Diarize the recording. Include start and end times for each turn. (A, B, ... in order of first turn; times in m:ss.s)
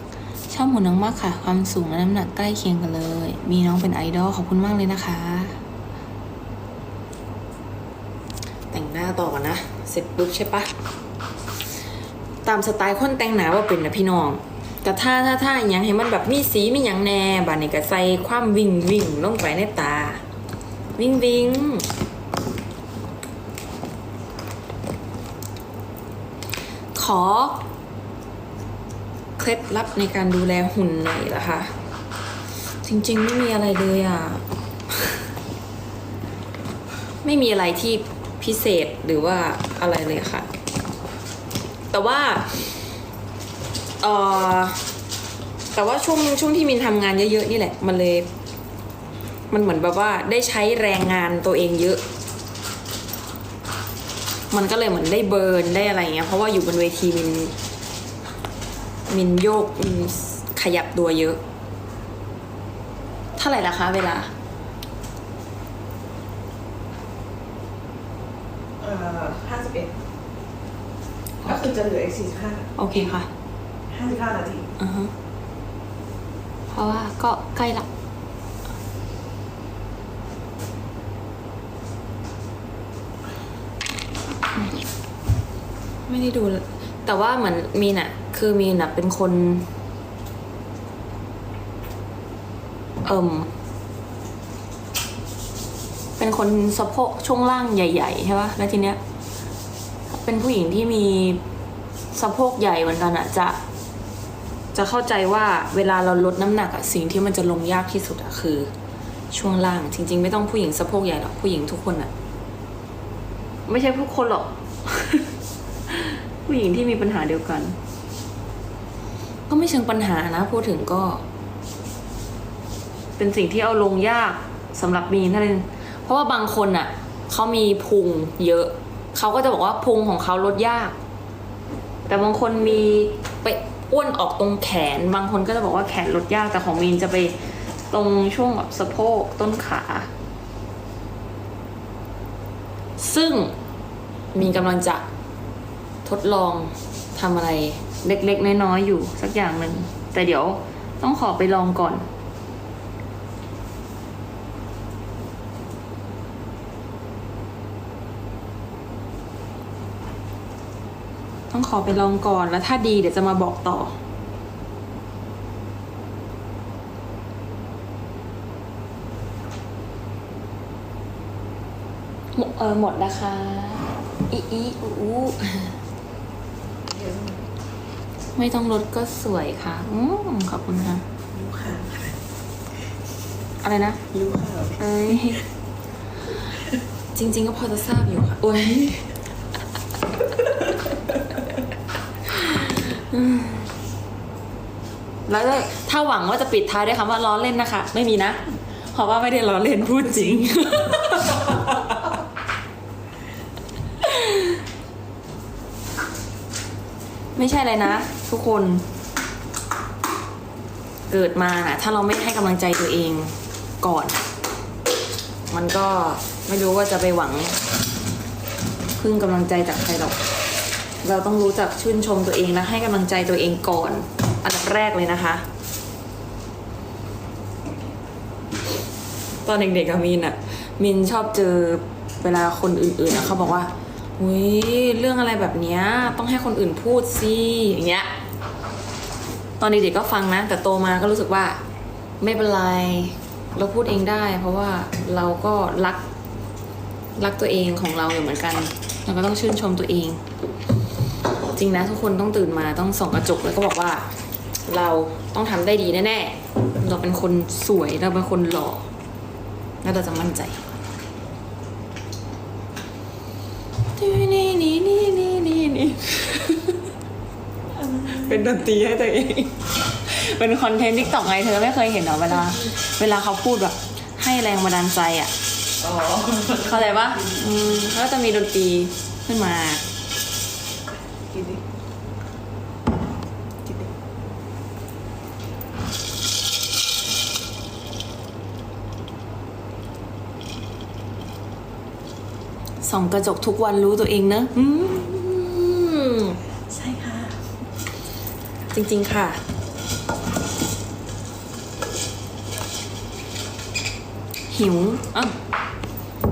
0:00.5-0:05.6 A
0:08.7-0:10.7 A
0:12.4-0:20.2 A
0:21.0-0:21.9 A
0:27.0-0:27.6 A
0:29.4-0:31.7 A
0:32.8-0:34.4 A
0:37.2-0:40.5 A
0:41.9-0:42.9 A
0:44.0-0:44.9 A
0:45.7-0:48.3 A
0:49.5-0:52.0 A
0:54.5-0:57.5 A
0:59.1-1:01.4 A
1:03.4-1:04.3 A
1:08.8-1:10.0 B
1:11.4-1:12.8 B
1:12.8-1:13.3 A
1:13.9-1:14.7 B
1:14.8-1:15.1 A
1:16.7-1:17.9 A
1:26.1-1:29.7 A
1:33.0-1:33.5 A
1:36.2-1:39.0 A
1:40.1-1:41.4 A
1:42.1-1:43.6 A
1:44.7-1:48.7 A
1:49.3-1:52.1 A
1:53.7-1:55.3 A
1:55.9-1:57.8 A
1:59.5-2:01.2 A
2:03.2-2:11.0 A
2:12.1-2:20.1 A
2:23.0-2:23.5 A
2:24.3-2:25.0 A
2:26.0-2:32.1 A
2:41.5-2:44.0 A
2:52.3-2:55.8 A
2:56.9-2:57.4 B
2:58.4-3:01.1 A
3:01.3-3:02.1 B
3:03.6-3:04.0 A
3:04.1-3:04.8 B
3:04.8-3:05.5 A
3:07.1-3:09.0 A
3:12.3-3:13.7 A
3:15.3-3:22.1 A
3:24.0-3:24.6 A
3:27.4-3:28.8 A
3:31.1-3:34.2 A
3:35.5-3:37.6 A
3:39.0-3:40.2 A
3:41.0-3:45.4 A
3:49.4-3:58.1 A
3:59.6-4:01.6 A
4:02.2-4:06.0 A
4:07.2-4:10.2 A
4:11.5-4:14.1 A
4:14.7-4:18.9 A
4:19.8-4:20.6 A
4:24.0-4:26.8 A
4:27.9-4:35.3 A
4:35.8-4:36.6 B
4:36.5-4:39.8 A
4:41.3-4:41.6 B
4:52.8-4:56.4 A
4:56.7-4:57.4 B
4:58.7-4:59.4 A
5:04.5-5:05.4 A